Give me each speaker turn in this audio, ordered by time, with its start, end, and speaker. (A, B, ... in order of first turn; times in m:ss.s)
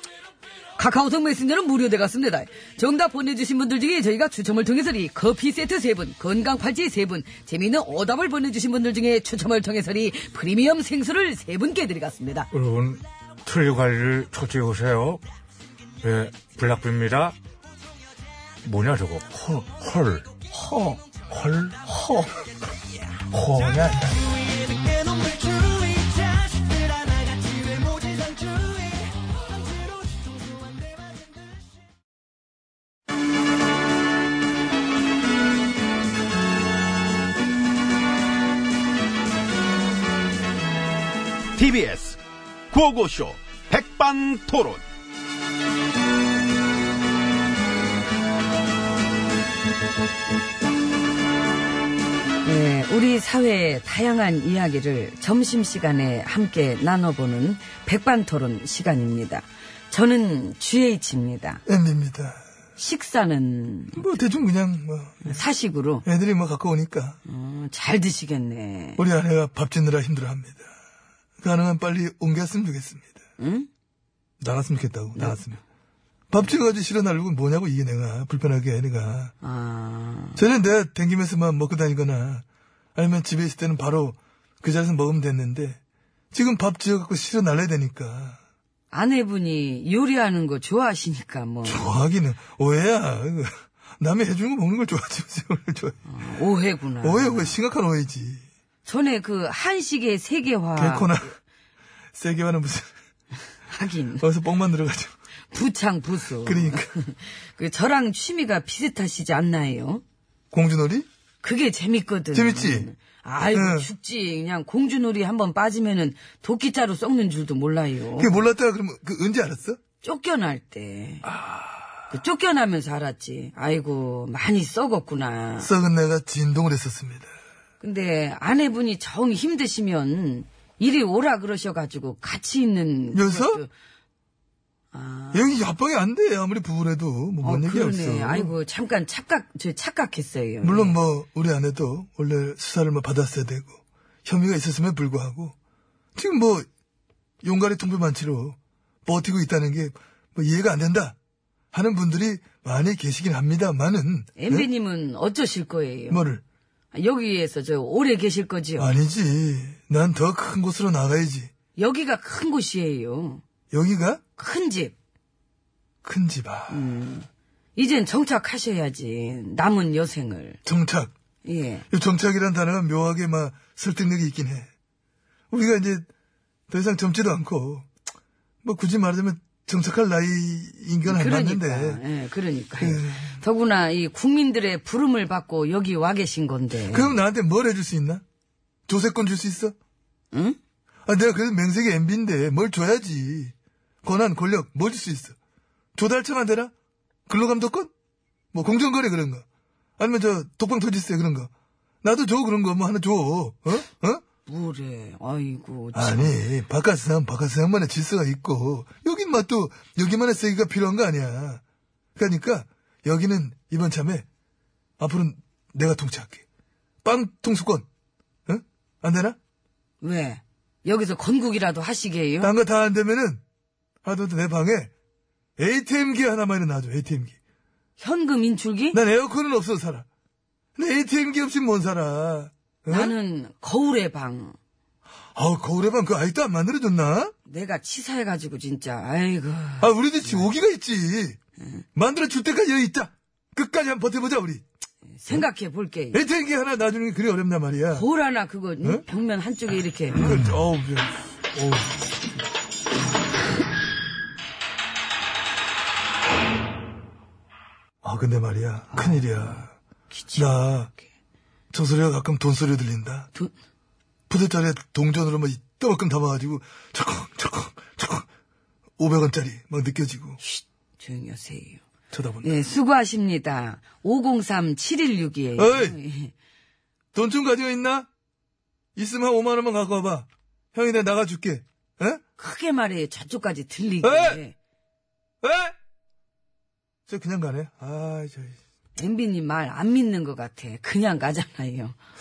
0:00.8-0:12.5 A
0:12.5-0:15.2 B
0:16.0-0:17.4 B
0:18.6-0:20.3 B
0:20.5-0:21.0 A
0:21.3-0:21.8 B
0:21.9-0:22.3 A
0:23.3-0:24.2 B
0:24.4-0:29.2 C
0:29.9-0:31.4 C
0:41.6-0:42.2 D
0:42.7-0:44.8 D
0:52.4-1:01.6 A
1:01.7-1:02.4 E
1:02.8-1:04.0 A
1:03.9-1:05.3 E
1:05.2-1:06.0 A
1:06.0-1:07.2 E
1:07.3-1:09.0 A
1:09.0-1:10.7 E
1:11.4-1:13.2 E
1:13.4-1:13.7 A
1:14.4-1:15.6 E
1:15.2-1:15.4 A
1:16.3-1:19.3 E
1:19.4-1:20.4 A
1:20.4-1:22.4 E
1:23.0-1:25.8 E
1:26.3-1:28.4 E
1:28.9-1:31.8 A
1:31.6-1:36.0 E
1:36.1-1:37.6 A
1:37.0-1:38.4 E
1:38.9-1:41.1 A
1:40.8-1:41.3 E
1:42.1-1:42.9 E
1:43.7-1:44.3 A
1:44.2-1:45.1 E
1:45.5-1:50.0 A
1:46.4-1:46.9 E
1:50.5-1:51.1 E
1:51.4-1:58.3 A
1:52.3-1:52.9 E
1:53.5-1:53.9 E
1:58.2-1:59.8 E
2:00.0-2:01.2 A
2:01.4-2:01.6 E
2:02.1-2:05.7 A
2:05.6-2:07.3 E
2:07.8-2:13.7 A
2:13.1-2:13.6 E
2:14.9-2:15.4 A
2:15.3-2:18.5 E
2:17.4-2:21.0 A
2:20.6-2:25.6 E
2:26.2-2:26.7 E
2:27.4-2:31.2 E
2:31.7-2:34.7 E
2:34.4-2:36.2 A
2:36.1-2:36.4 E
2:36.9-2:38.9 A
2:38.8-2:41.5 E
2:41.8-2:43.4 A
2:43.7-2:44.2 E
2:44.4-2:44.9 A
2:46.0-2:46.9 E
2:46.7-2:50.6 A
2:50.6-2:51.1 E
2:51.5-2:51.8 A
2:51.9-2:54.7 E
2:55.5-2:56.1 E
2:56.7-2:57.9 E
2:58.6-3:02.0 E
3:01.1-3:07.2 A
3:02.8-3:03.4 E
3:06.9-3:08.2 E
3:08.9-3:09.8 E
3:10.3-3:10.6 A
3:11.1-3:15.4 E
3:16.0-3:16.7 E
3:17.3-3:17.9 E
3:18.5-3:19.4 E
3:20.0-3:21.5 E
3:22.0-3:24.2 E
3:24.5-3:26.4 A
3:25.9-3:31.6 E
3:32.2-3:34.3 E
3:35.0-3:36.4 E
3:37.0-3:37.9 E
3:38.5-3:39.4 E
3:40.0-3:42.5 A
3:42.4-3:43.4 E
3:44.0-3:44.9 E
3:45.6-3:47.4 E
3:48.0-3:49.0 A
3:48.9-3:50.1 E
3:50.8-3:53.2 E
3:52.9-3:54.6 A
3:55.4-3:57.3 E
3:57.5-4:00.5 A
3:59.8-4:01.4 E
4:02.0-4:04.6 E
4:05.1-4:06.2 A
4:06.1-4:08.1 E
4:07.9-4:10.4 A
4:10.2-4:11.9 E
4:18.0-4:19.7 E
4:18.9-4:19.6 A
4:20.1-4:20.5 A
4:20.4-4:20.9 E
4:21.7-4:23.3 E
4:24.3-4:28.3 E
4:29.0-4:30.4 E
4:30.4-4:31.8 A
4:32.1-4:32.6 E
4:32.4-4:36.3 A
4:35.6-4:36.0 E
4:37.1-4:38.1 E
4:39.0-4:42.2 E
4:42.4-4:44.5 A
4:44.0-4:44.4 E
4:45.4-4:45.7 E
4:47.1-4:48.6 E
4:49.0-4:52.0 A